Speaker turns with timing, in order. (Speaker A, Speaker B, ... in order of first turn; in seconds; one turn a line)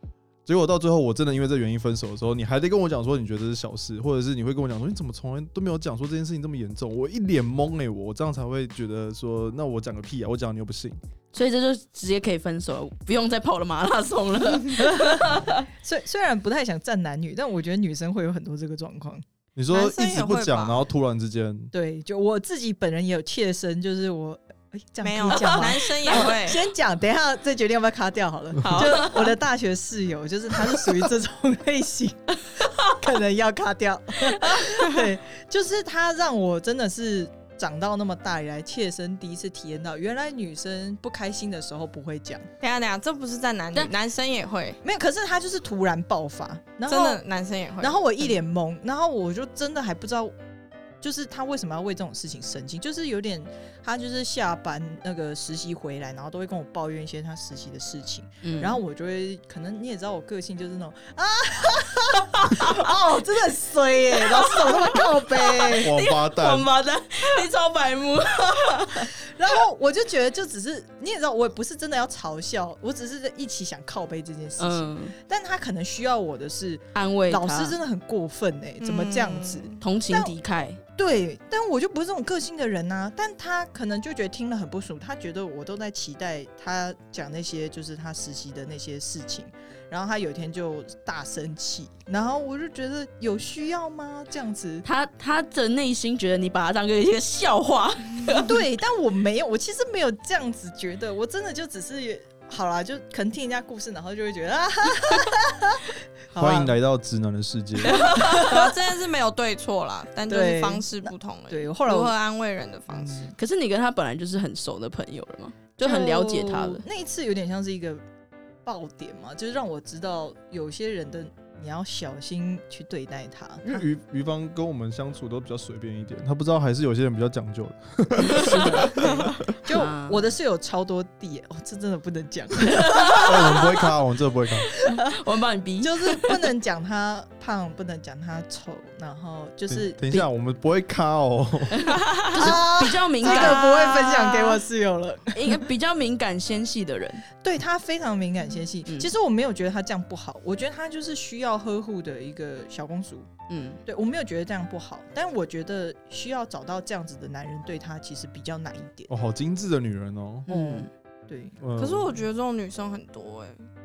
Speaker A: 0.5-11.0
Speaker B: 11.3-15.6
Speaker C: 14.8-19.2
Speaker A: 19.6-21.7
Speaker D: 19.7-20.9
Speaker C: 21.7-42.5
Speaker D: 25.0-26.6
Speaker B: 28.6-29.4
Speaker D: 42.6-44.8
Speaker C: 44.8-47.2
Speaker D: 46.9-48.4
Speaker C: 47.8-50.3
Speaker C: 51.0-65.9
Speaker B: 58.4-58.8
Speaker B: 62.4-62.7
Speaker B: 64.4-69.1
Speaker A: 65.7-66.7
Speaker C: 69.2-80.3
Speaker B: 74.6-75.1
Speaker B: 76.9-77.8
Speaker D: 78.8-79.8
Speaker B: 79.8-80.8
Speaker C: 81.0-94.8
Speaker B: 94.8-98.5
Speaker C: 98.2-106.7
Speaker A: 106.4-108.0
Speaker B: 107.9-108.6
Speaker D: 107.9-113.3
Speaker C: 108.1-108.7
Speaker C: 110.3-112.1
Speaker C: 112.9-113.3
Speaker B: 113.3-116.8
Speaker C: 115.8-118.0
Speaker C: 118.6-123.8
Speaker A: 123.7-129.5
Speaker B: 128.3-129.0
Speaker C: 128.4-133.8
Speaker B: 129.6-130.3
Speaker B: 132.8-133.3
Speaker A: 133.2-134.7
Speaker B: 134.8-136.3
Speaker C: 135.8-140.3
Speaker A: 139.7-141.9
Speaker B: 141.8-144.0
Speaker C: 142.3-145.6
Speaker D: 143.2-144.6
Speaker B: 145.3-147.2
Speaker C: 147.4-153.3
Speaker B: 148.8-149.1
Speaker B: 153.5-153.8
Speaker C: 153.8-159.1
Speaker A: 159.1-160.5
Speaker B: 160.5-160.9
Speaker C: 160.5-161.6
Speaker A: 161.6-162.2
Speaker D: 161.8-163.6